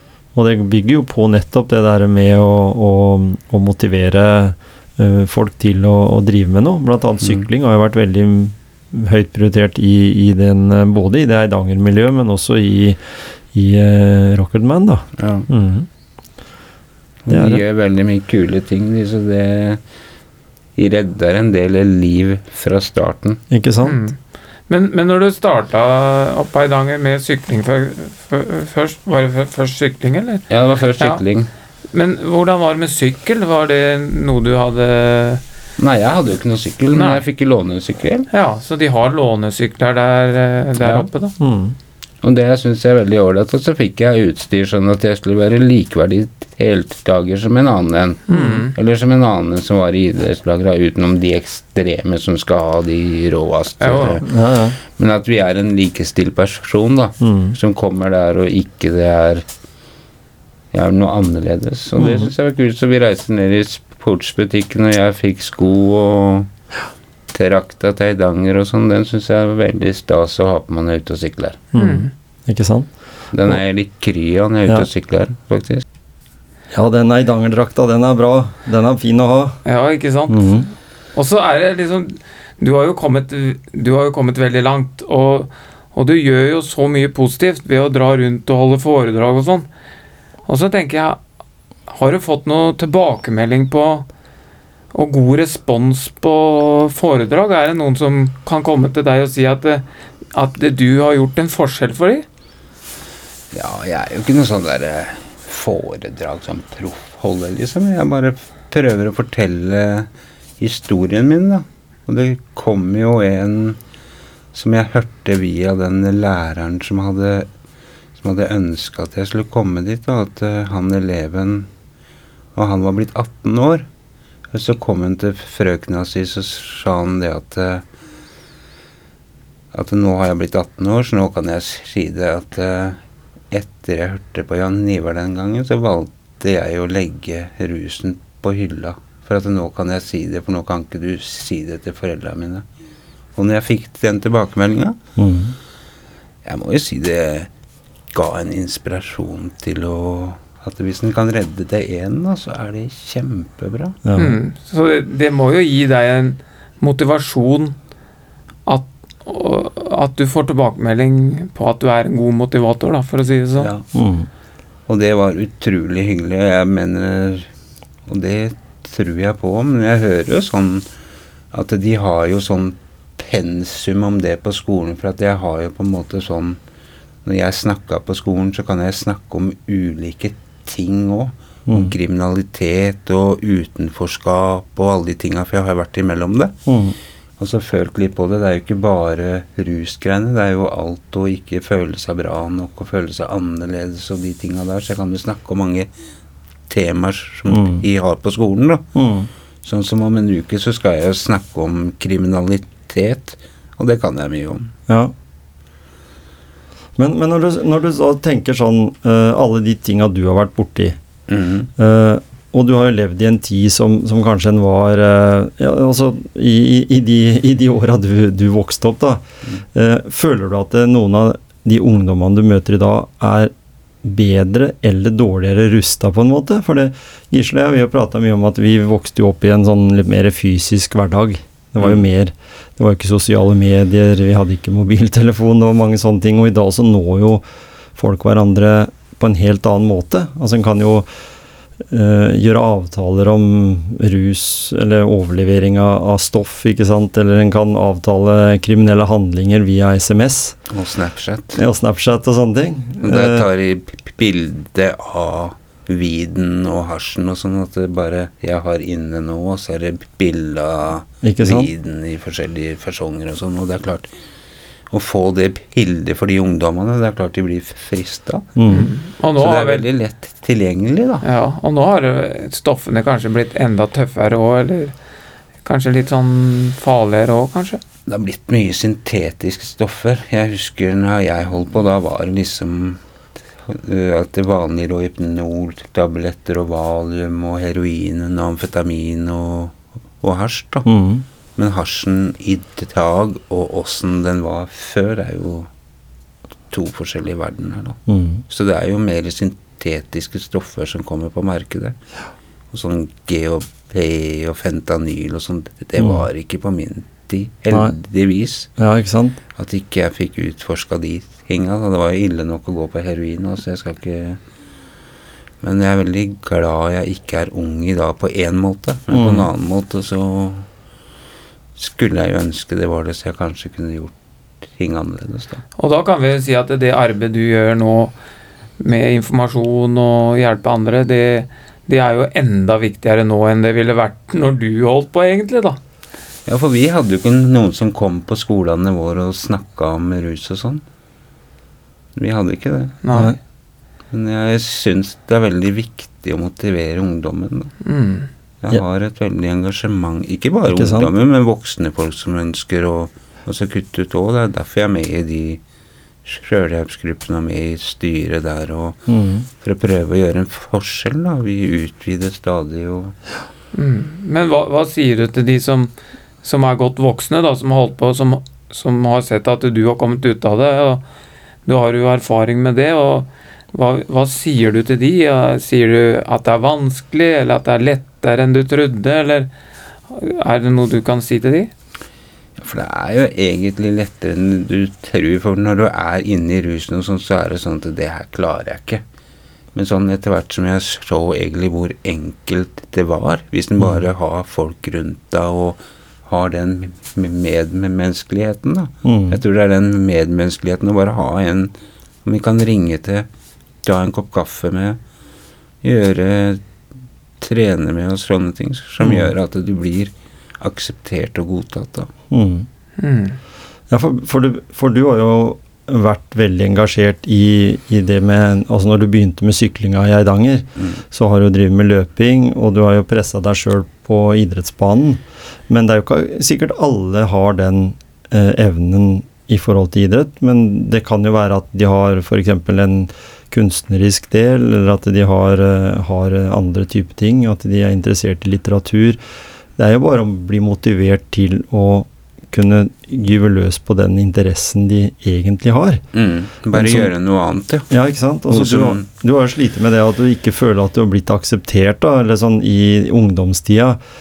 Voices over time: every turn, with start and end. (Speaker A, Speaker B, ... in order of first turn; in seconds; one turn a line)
Speaker A: 0.3-13.0
Speaker A: 13.5-15.9
Speaker B: 15.2-15.5
Speaker B: 17.2-19.8
Speaker A: 17.3-17.6
Speaker B: 20.8-23.4
Speaker A: 23.5-24.0
Speaker C: 23.8-24.2
Speaker C: 24.7-30.4
Speaker B: 30.5-31.5
Speaker C: 31.9-35.4
Speaker B: 35.8-38.3
Speaker C: 36.9-37.2
Speaker C: 38.3-41.4
Speaker B: 40.8-41.1
Speaker A: 41.4-41.8
Speaker B: 42.2-59.5
Speaker C: 48.3-48.7
Speaker C: 53.8-54.2
Speaker A: 54.2-54.8
Speaker A: 57.2-57.6
Speaker B: 60.7-66.5
Speaker A: 62.0-62.3
Speaker B: 67.3-71.7
Speaker A: 71.7-72.9
Speaker C: 71.8-72.1
Speaker B: 73.3-75.8
Speaker A: 76.7-79.6
Speaker C: 79.6-80.6
Speaker A: 80.3-80.7
Speaker C: 81.1-89.7
Speaker C: 90.5-91.2
Speaker C: 91.9-94.1
Speaker C: 94.9-102.2
Speaker B: 103.5-113.8
Speaker B: 114.5-117.5
Speaker B: 118.2-121.7
Speaker B: 122.5-123.9
Speaker B: 124.5-127.8
Speaker B: 129.7-133.0
Speaker B: 133.5-142.6
Speaker B: 143.3-145.0
Speaker A: 145.2-145.6
Speaker B: 146.4-147.5
Speaker B: 148.1-154.0
Speaker A: 154.0-154.4
Speaker C: 154.2-157.8
Speaker C: 158.7-163.7
Speaker B: 163.6-163.8
Speaker A: 163.9-164.3
Speaker B: 164.9-167.5
Speaker B: 168.1-170.9
Speaker B: 171.5-176.6
Speaker B: 177.2-186.6
Speaker A: 181.7-181.9
Speaker A: 186.7-186.9
Speaker B: 187.4-195.9
Speaker B: 196.7-198.8
Speaker A: 197.5-197.8
Speaker A: 198.9-199.3
Speaker B: 199.6-204.7
Speaker A: 204.9-205.1
Speaker A: 207.0-211.0
Speaker B: 211.3-211.7
Speaker A: 211.8-237.4
Speaker B: 231.8-232.0
Speaker A: 237.9-241.1
Speaker A: 241.9-250.6
Speaker B: 250.7-251.6
Speaker A: 251.6-253.5
Speaker B: 253.0-264.1
Speaker A: 261.2-261.7
Speaker B: 264.9-268.6
Speaker A: 268.6-268.9
Speaker C: 268.7-269.8
Speaker B: 269.4-271.2
Speaker C: 271.2-274.9
Speaker C: 275.6-277.8
Speaker B: 278.1-283.0
Speaker B: 283.6-290.9
Speaker A: 290.9-291.2
Speaker B: 291.6-295.7
Speaker B: 296.7-302.0
Speaker A: 298.1-298.4
Speaker B: 302.7-308.7
Speaker A: 306.0-306.2
Speaker A: 308.8-309.4
Speaker B: 309.5-314.4
Speaker B: 315.6-320.6
Speaker A: 319.1-319.5
Speaker B: 321.8-324.1
Speaker B: 324.6-325.6
Speaker C: 325.8-328.1
Speaker C: 328.8-335.8
Speaker B: 336.4-340.8
Speaker B: 342.1-343.0
Speaker C: 343.0-343.3
Speaker B: 344.1-347.7
Speaker C: 347.8-348.3
Speaker B: 348.6-355.6
Speaker A: 350.7-351.1
Speaker B: 356.2-359.0
Speaker A: 359.1-359.5
Speaker B: 359.6-363.1
Speaker C: 363.7-365.9
Speaker C: 366.4-371.0
Speaker C: 371.6-379.5
Speaker C: 380.1-381.7
Speaker B: 382.6-389.0
Speaker B: 389.7-401.7
Speaker A: 399.0-399.4
Speaker B: 402.2-403.3
Speaker B: 403.8-405.0
Speaker B: 405.8-406.6
Speaker B: 407.4-412.1
Speaker A: 409.0-409.3
Speaker A: 412.3-412.7
Speaker C: 413.0-413.4
Speaker A: 413.9-439.2
Speaker A: 439.8-446.0
Speaker B: 446.1-447.9
Speaker A: 446.7-447.1
Speaker A: 447.9-454.0
Speaker B: 448.5-449.0